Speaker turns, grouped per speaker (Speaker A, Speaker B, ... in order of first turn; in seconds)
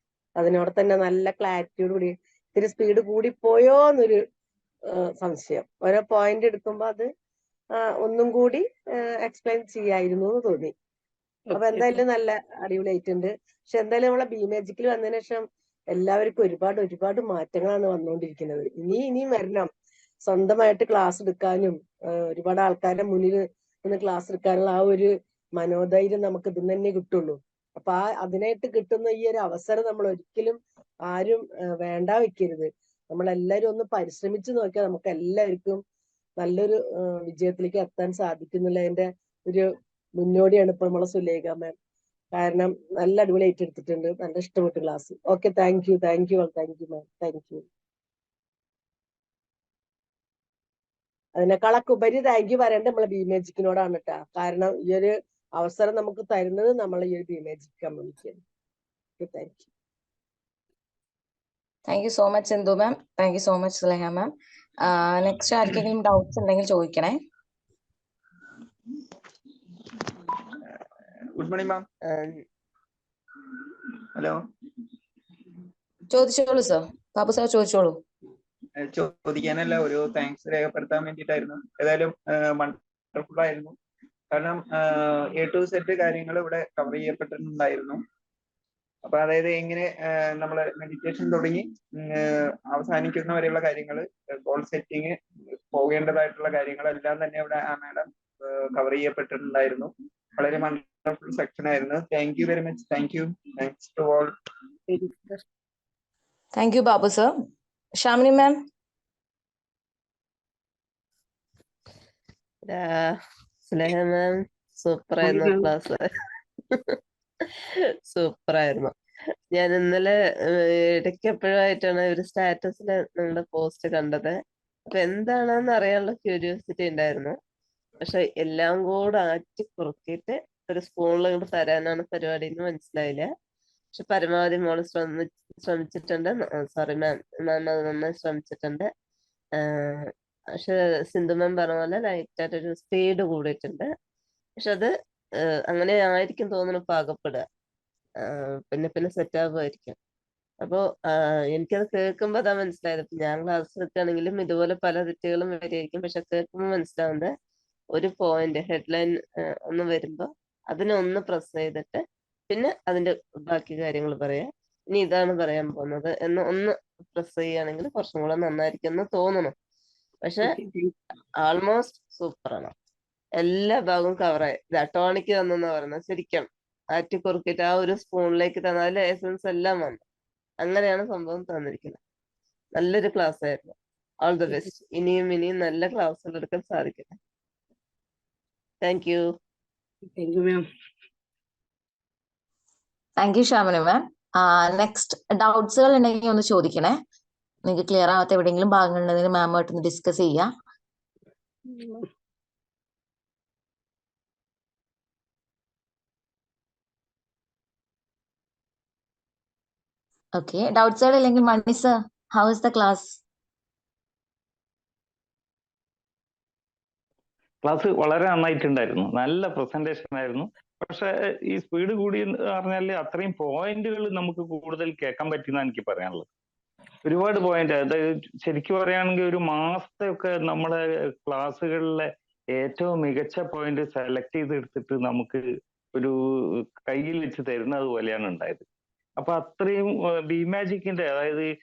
Speaker A: 0.4-4.2, 4.9-7.1, 7.8-10.7, 11.5-19.7, 20.2-35.8, 36.4-41.7, 42.3-47.6, 51.4-58.4, 59.2-59.7
Speaker B: 11.5-12.0, 104.9-105.4, 115.2-115.7, 170.4-170.9, 190.2-190.6
Speaker C: 61.9-67.2, 76.1-78.0, 106.5-107.3, 108.0-108.6, 193.2-197.0, 197.6-200.5, 210.3-213.2
Speaker D: 71.3-71.8, 78.8-83.7, 84.3-88.0, 89.0-95.2, 95.7-104.3
Speaker E: 72.0-72.4, 112.7-113.2, 113.7-116.1, 116.7-117.0, 118.1-118.9, 119.5-124.4, 124.9-127.3, 128.0-133.3, 133.9-138.9, 139.6-143.9, 144.6-147.4, 148.2-149.9, 150.6-157.3, 157.9-169.5, 170.2-170.6, 171.4-172.7, 173.4-180.0, 180.6-182.0, 182.7-187.1, 188.8-189.2
Speaker F: 217.6-226.2, 227.0-232.1, 232.6-235.4, 236.9-238.6, 239.2-241.4